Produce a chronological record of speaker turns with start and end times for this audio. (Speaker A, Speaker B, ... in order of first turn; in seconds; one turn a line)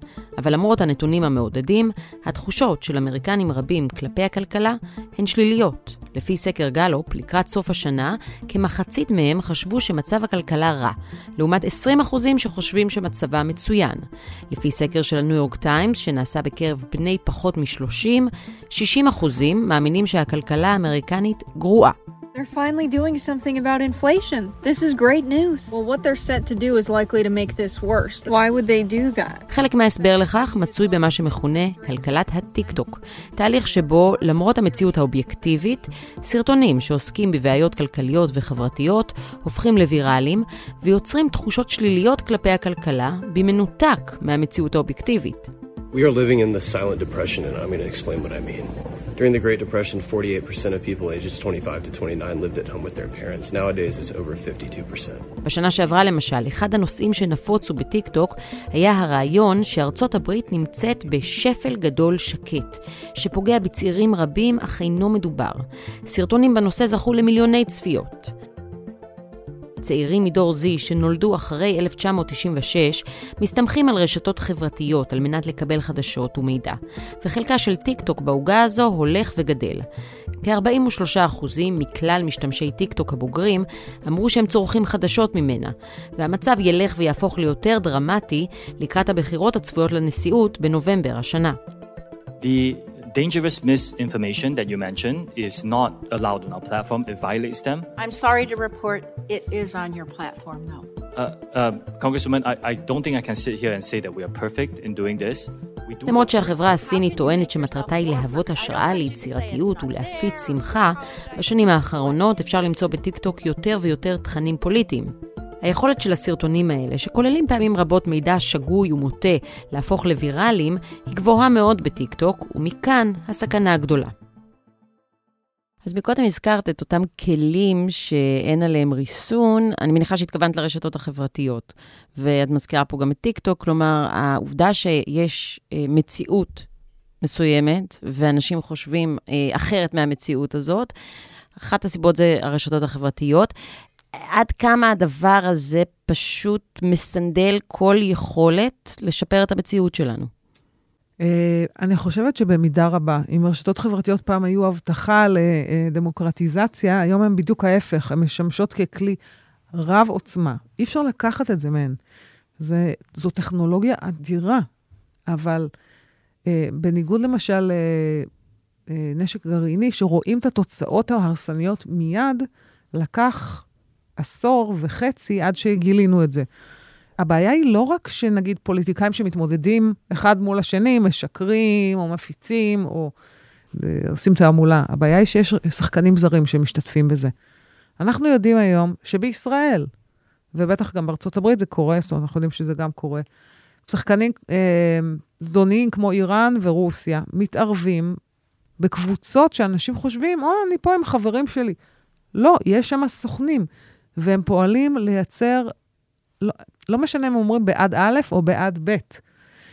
Speaker A: 0.4-22.0
Speaker B: 22.3-29.4
Speaker A: 29.5-45.5
Speaker C: 45.9-55.3
Speaker A: 55.4-68.3
Speaker A: 69.8-79.8
Speaker A: 80.4-91.6
Speaker D: 92.4-97.9
Speaker E: 98.0-100.9
Speaker D: 101.1-106.2
Speaker A: 106.0-124.1
Speaker E: 106.7-110.8
Speaker A: 125.8-136.7
Speaker A: 137.2-140.9
Speaker A: 141.6-143.5
Speaker A: 144.2-150.3
Speaker F: 151.2-159.2
Speaker F: 159.7-162.0
Speaker F: 162.6-164.7
Speaker F: 165.3-165.7
Speaker F: 166.5-168.3
Speaker F: 168.9-173.7
Speaker F: 174.2-176.5
Speaker F: 177.2-183.1
Speaker F: 183.7-187.3
Speaker F: 188.0-189.9
Speaker F: 190.5-193.2
Speaker F: 193.8-198.2
Speaker F: 198.8-201.8
Speaker F: 202.3-205.7
Speaker F: 206.4-209.2